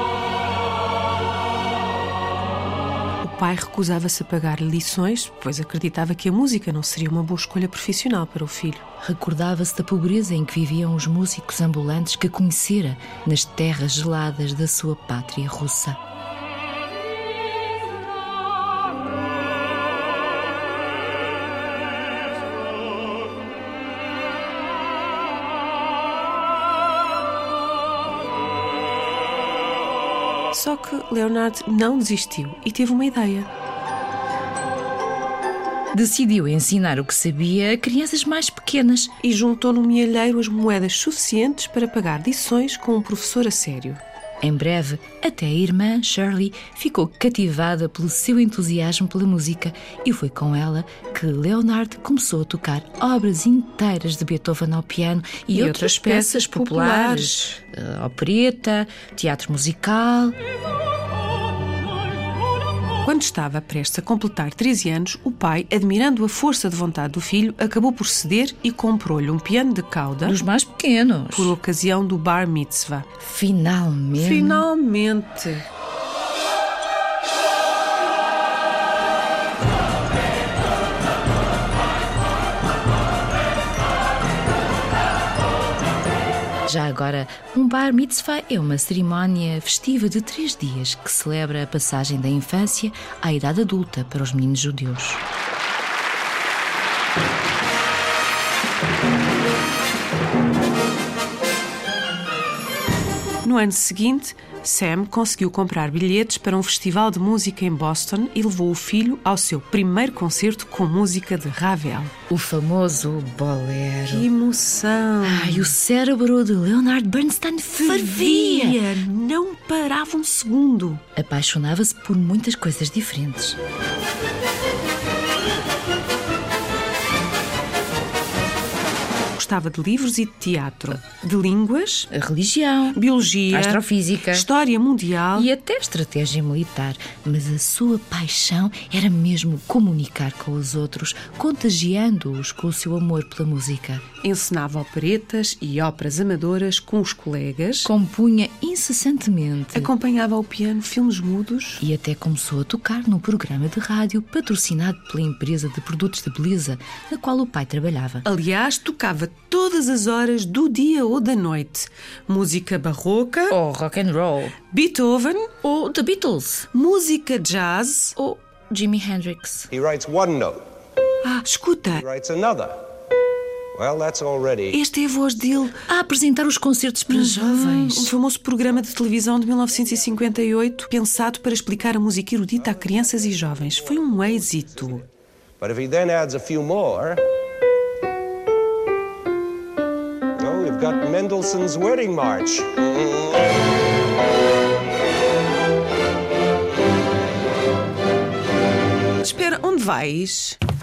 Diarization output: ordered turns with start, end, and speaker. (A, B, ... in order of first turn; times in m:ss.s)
0:03.2-0:08.8 A
0:09.0-0:16.0 B
0:30.5-0:33.5 A
0:35.9-0:39.2 B
0:39.2-0:44.0 A
0:44.4-1:00.4 B
0:55.5-0:57.6 A
1:03.0-1:10.4 A
1:10.2-1:11.6 B
1:11.3-1:13.1 A
1:13.2-1:14.7 B
1:14.2-1:15.7 A
1:26.7-1:35.2 B
1:43.4-1:52.1 A
1:52.3-1:54.3 B
1:54.1-1:55.7 A
1:55.2-1:58.8 B
1:57.8-2:01.0 A
2:01.2-2:03.6 B
2:09.4-2:12.1 A
2:12.1-2:14.5 B
2:12.9-2:15.5 A
2:15.3-2:24.0 B
2:24.2-2:27.9 A
2:27.8-2:29.9 B
2:29.7-2:31.8 A
2:31.8-2:38.3 B
2:38.2-2:43.6 A
2:43.5-2:44.6 B
2:44.7-2:45.6 A
2:45.6-2:46.7 B
2:46.7-2:48.2 A
2:48.2-2:49.7 B
2:49.7-2:50.6 C
2:51.2-2:52.0 A
2:52.0-2:52.8 C
2:53.8-2:54.8 C
2:54.7-2:55.8 A
2:55.9-2:58.1 B
2:57.1-3:05.0 A
3:05.6-3:07.2 C
3:10.4-3:13.5 C
3:19.2-3:20.6 A